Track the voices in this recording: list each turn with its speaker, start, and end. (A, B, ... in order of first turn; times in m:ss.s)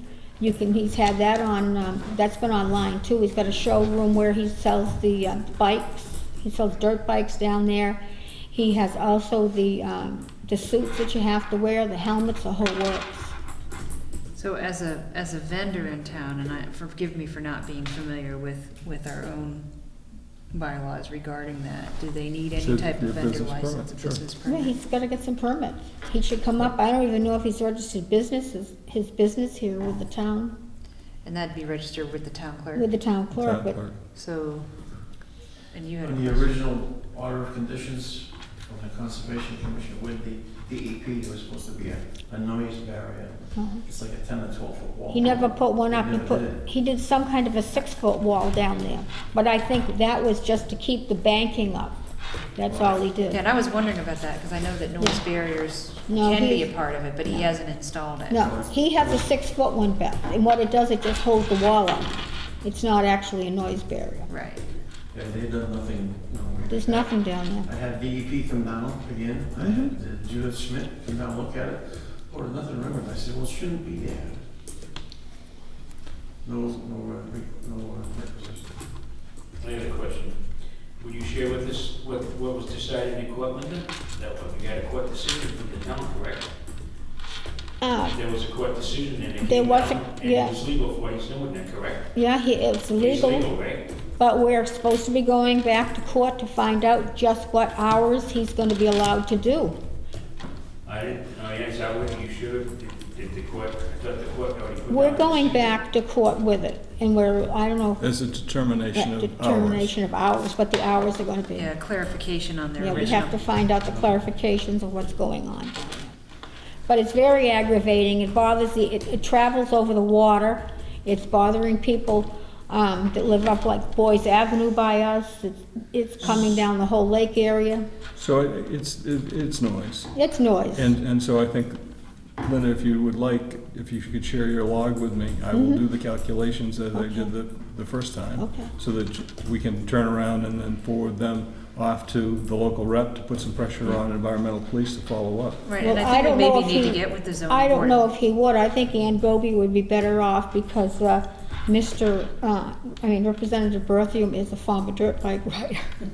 0:00.4-0:08.0 A
0:08.5-0:13.4 A
0:14.3-0:19.7 B
0:20.5-0:24.7 B
0:22.6-0:24.2 C
0:24.5-0:30.6 A
0:31.2-0:32.9 B
0:32.8-0:33.8 A
0:33.3-0:34.0 C
0:34.1-0:34.7 B
0:35.7-0:36.6 B
0:36.0-0:46.6 D
0:43.6-0:43.8 A
0:45.1-0:52.0 A
0:52.6-0:53.4 A
0:52.6-0:53.0 D
0:53.3-0:58.5 B
0:56.1-0:56.7 A
0:58.3-1:04.3 A
0:58.4-0:59.2 D
1:04.3-1:04.6 B
1:05.1-1:14.4 D
1:06.7-1:07.7 A
1:09.6-1:09.9 A
1:16.4-1:18.7 D
1:19.6-1:20.4 E
1:21.0-1:26.5 E
1:27.8-1:28.2 A
1:28.1-1:32.1 E
1:29.4-1:30.6 A
1:32.2-1:33.5 A
1:33.0-1:33.8 E
1:34.2-1:39.8 A
1:40.8-1:45.8 E
1:44.9-1:48.1 A
1:48.0-1:49.9 C
1:48.9-1:51.7 A
1:51.6-1:53.4 B
1:52.8-1:56.2 A
1:56.9-2:07.9 A
2:08.2-2:10.1 C
2:10.2-2:10.9 A
2:10.8-2:11.8 C
2:12.4-2:25.6 C
2:15.5-2:15.8 A
2:16.9-2:17.3 A
2:18.4-2:18.7 A
2:25.6-2:28.1 B
2:25.8-2:35.9 A